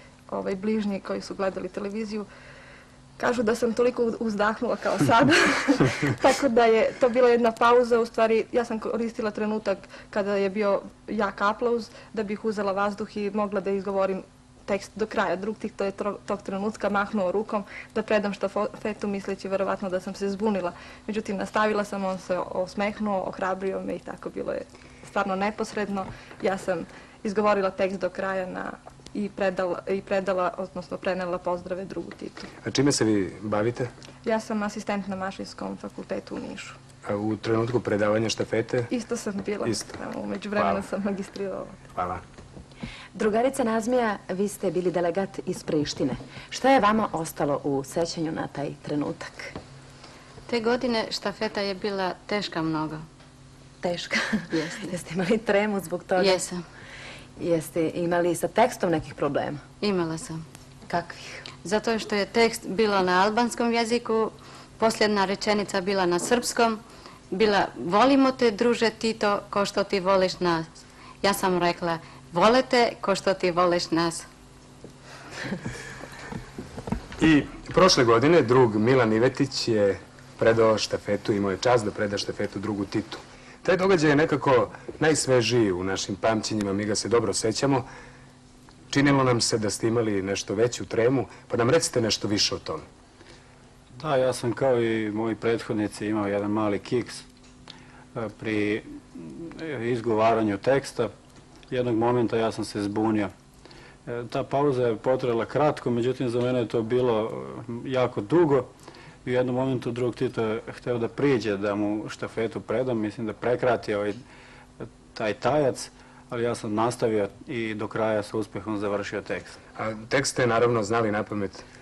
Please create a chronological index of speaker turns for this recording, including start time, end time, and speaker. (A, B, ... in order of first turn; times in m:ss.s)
0:00.3-0:02.3 A
0:03.2-0:32.5 A
0:32.6-0:33.9 B
0:34.2-0:36.8 A
0:37.0-0:38.9 B
0:38.9-0:41.8 A
0:39.6-0:40.0 B
0:40.5-0:40.8 B
0:41.9-0:42.2 B
0:43.1-0:49.5 C
0:50.5-0:53.0 D
0:53.8-0:56.4 C
0:54.5-0:54.9 D
0:56.2-0:56.6 D
0:57.4-0:59.6 C
0:59.8-1:00.4 D
1:00.9-1:01.4 C
1:01.6-1:06.8 D
1:07.3-1:10.7 D
1:11.2-1:14.2 D
1:17.2-1:27.8 B
1:28.9-1:32.8 B
1:34.0-1:37.2 E
1:38.1-1:41.1 E
1:41.7-1:43.3 E
1:44.0-1:48.7 E
1:49.2-1:54.2 E
1:54.9-1:59.6 E
1:59.8-2:01.6 B